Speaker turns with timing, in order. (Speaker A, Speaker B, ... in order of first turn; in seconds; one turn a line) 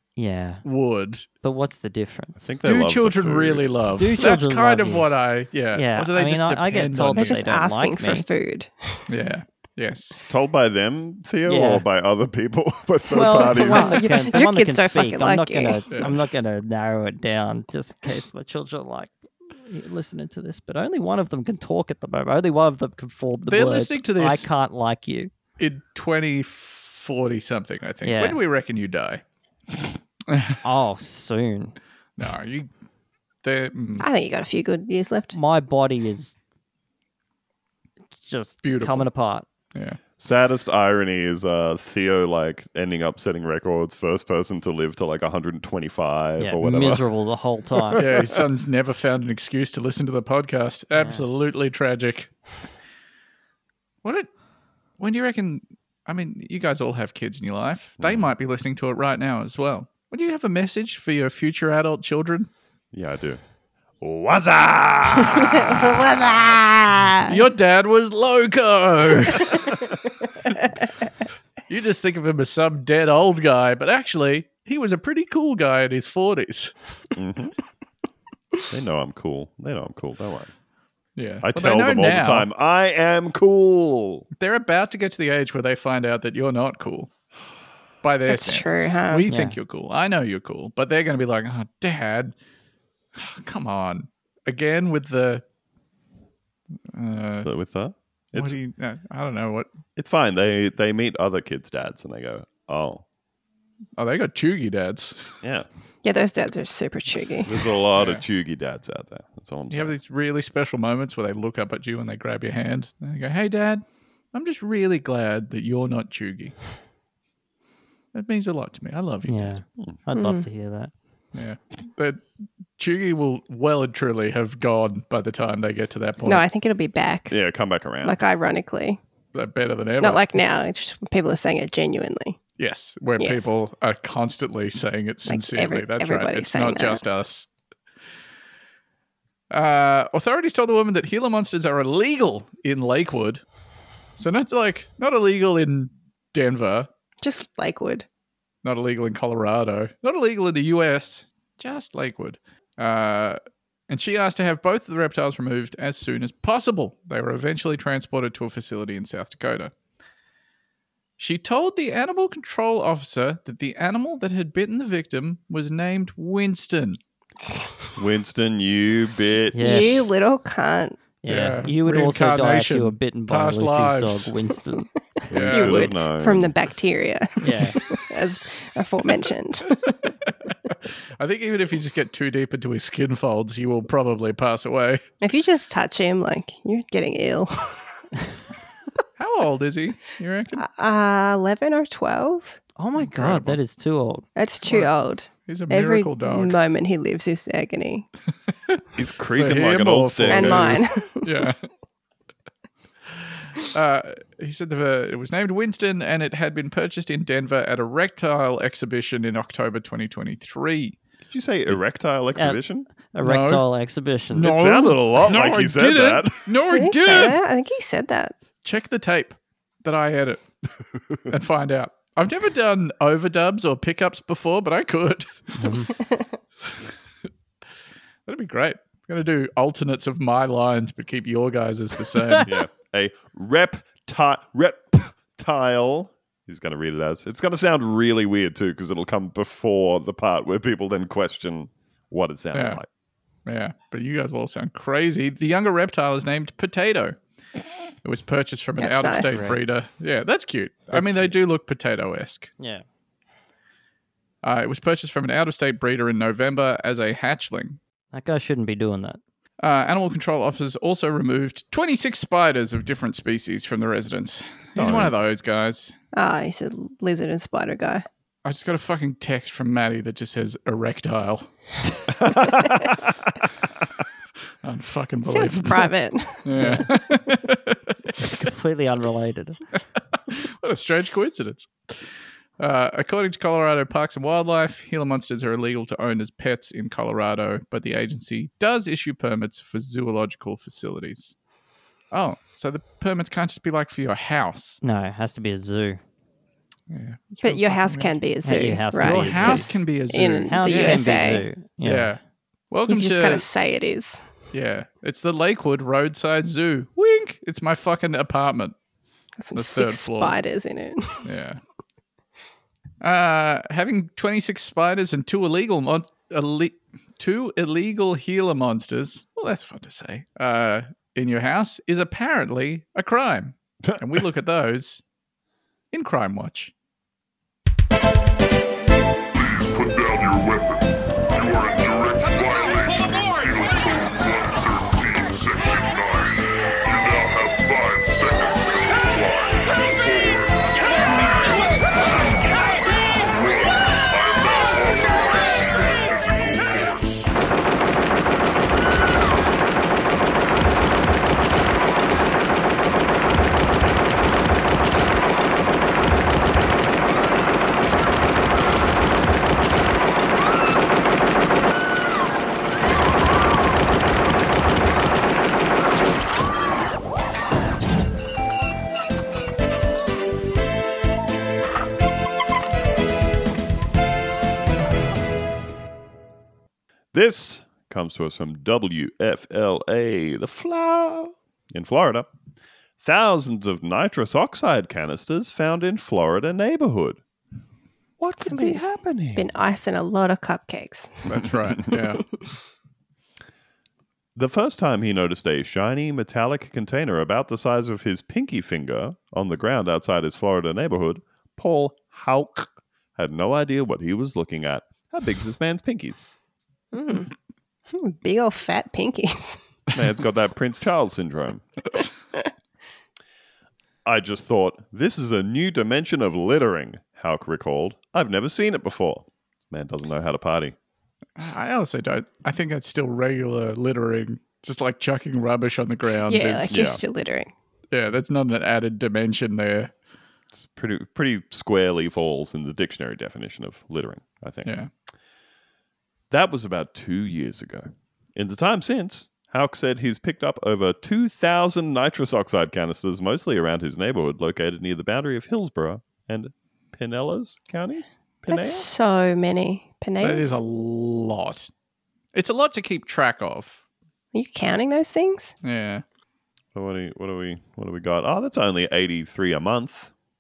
Speaker A: 0.2-0.6
Speaker B: 0.6-1.3
Speaker A: 1.4-2.6
Speaker C: 2.4-3.7
Speaker B: 2.6-7.4
Speaker A: 4.0-5.1
Speaker A: 5.7-8.2
Speaker D: 7.2-9.1
Speaker B: 9.1-10.2
Speaker C: 10.3-14.1
Speaker A: 11.5-11.8
Speaker A: 13.1-25.3
Speaker D: 13.4-16.1
Speaker B: 23.5-24.5
Speaker B: 25.6-29.2
Speaker A: 28.0-28.4
Speaker B: 30.3-30.6
Speaker A: 30.6-31.8
Speaker B: 32.2-32.7
Speaker B: 33.4-34.1
Speaker D: 34.0-35.4
Speaker A: 35.3-36.4
Speaker A: 38.2-39.5
Speaker B: 38.6-39.1
Speaker B: 39.7-40.0
Speaker C: 40.2-47.0
Speaker A: 46.4-48.0
Speaker B: 48.0-52.3
Speaker C: 48.0-48.2
Speaker A: 51.0-51.2
Speaker B: 54.0-54.3
Speaker B: 55.0-62.5
Speaker C: 62.9-63.4
Speaker C: 64.0-67.0
Speaker D: 65.5-67.3
Speaker B: 67.3-70.0
Speaker B: 71.7-76.7
Speaker C: 77.2-77.5
Speaker C: 78.7-80.5
Speaker B: 81.2-82.5
Speaker C: 81.4-84.3
Speaker B: 84.4-87.1
Speaker B: 88.0-92.3
Speaker D: 88.3-89.3
Speaker A: 89.3-89.6
Speaker B: 93.2-95.4
Speaker B: 96.9-97.5
Speaker C: 97.4-98.6
Speaker B: 98.3-99.7
Speaker C: 100.0-103.0
Speaker B: 104.0-105.4
Speaker C: 105.4-105.7
Speaker D: 106.0-107.6
Speaker C: 107.5-110.0
Speaker B: 108.0-108.2
Speaker B: 109.7-116.5
Speaker B: 118.1-119.5
Speaker A: 119.3-120.9
Speaker D: 120.2-120.5
Speaker B: 121.3-122.2
Speaker B: 122.8-126.4
Speaker D: 126.3-127.4
Speaker C: 127.3-128.2
Speaker D: 128.0-129.0
Speaker B: 129.3-130.2
Speaker D: 130.0-132.4
Speaker B: 132.6-137.5
Speaker D: 133.2-133.5
Speaker D: 135.3-137.0
Speaker B: 139.5-143.4
Speaker B: 144.2-146.9
Speaker D: 147.2-148.1
Speaker B: 148.7-153.4
Speaker B: 153.9-159.7
Speaker B: 161.2-167.0
Speaker C: 168.0-170.1
Speaker A: 169.5-170.0
Speaker D: 169.6-171.0
Speaker A: 171.2-174.9
Speaker B: 171.2-174.3
Speaker C: 175.3-176.5
Speaker B: 175.3-175.9
Speaker D: 175.4-180.1
Speaker A: 177.4-177.8
Speaker B: 180.5-185.0
Speaker D: 185.2-187.8
Speaker B: 189.2-190.7
Speaker D: 190.6-192.6
Speaker A: 192.8-194.3
Speaker B: 193.0-193.6
Speaker D: 194.4-198.1
Speaker B: 194.7-194.9
Speaker B: 195.5-196.6
Speaker C: 199.0-200.9
Speaker B: 199.3-201.6
Speaker D: 200.3-201.3
Speaker B: 203.6-211.0
Speaker C: 211.3-212.9
Speaker A: 212.4-214.6
Speaker B: 213.2-213.7
Speaker B: 214.3-217.4
Speaker C: 214.4-216.6
Speaker D: 216.7-218.3
Speaker B: 218.6-220.4
Speaker B: 221.3-225.9
Speaker A: 225.6-225.9
Speaker B: 228.3-232.6
Speaker C: 232.4-242.9
Speaker B: 242.5-242.8
Speaker B: 243.5-247.2
Speaker B: 248.0-252.5
Speaker D: 248.8-249.5
Speaker A: 249.3-249.6
Speaker A: 250.9-251.4
Speaker A: 252.6-252.8
Speaker B: 254.4-257.8
Speaker A: 258.1-259.2
Speaker B: 259.6-265.9
Speaker C: 264.8-265.2
Speaker D: 266.1-268.1
Speaker B: 268.4-271.5
Speaker C: 272.1-273.2
Speaker B: 274.6-275.9
Speaker D: 275.2-276.9
Speaker B: 276.4-278.1
Speaker A: 276.6-276.8
Speaker A: 278.2-279.6
Speaker B: 280.1-282.0
Speaker B: 282.6-291.4
Speaker B: 292.1-294.8
Speaker A: 294.8-296.0
Speaker B: 296.9-298.2
Speaker D: 297.4-301.4
Speaker A: 298.4-299.8
Speaker B: 299.0-302.2
Speaker A: 300.5-302.1
Speaker B: 302.7-303.4
Speaker D: 302.9-304.2
Speaker B: 304.5-308.8
Speaker D: 309.4-311.2
Speaker B: 309.5-310.4
Speaker B: 311.2-311.6
Speaker B: 313.0-325.0
Speaker B: 325.9-326.7
Speaker E: 329.3-342.6
Speaker E: 343.2-347.3
Speaker C: 377.1-382.3
Speaker C: 383.0-387.2
Speaker C: 388.2-389.5
Speaker D: 388.4-391.4
Speaker B: 391.3-392.2
Speaker C: 394.4-406.3
Speaker D: 406.9-407.3
Speaker D: 407.9-409.6
Speaker C: 409.9-411.6
Speaker C: 414.1-420.8
Speaker B: 421.4-426.8
Speaker D: 426.3-427.5
Speaker C: 426.7-427.0
Speaker B: 427.9-429.9
Speaker C: 430.5-434.7
Speaker C: 436.3-448.9
Speaker D: 448.5-450.6
Speaker B: 450.2-451.7
Speaker B: 452.3-453.8
Speaker D: 454.3-455.5
Speaker B: 455.6-456.0
Speaker C: 456.8-460.1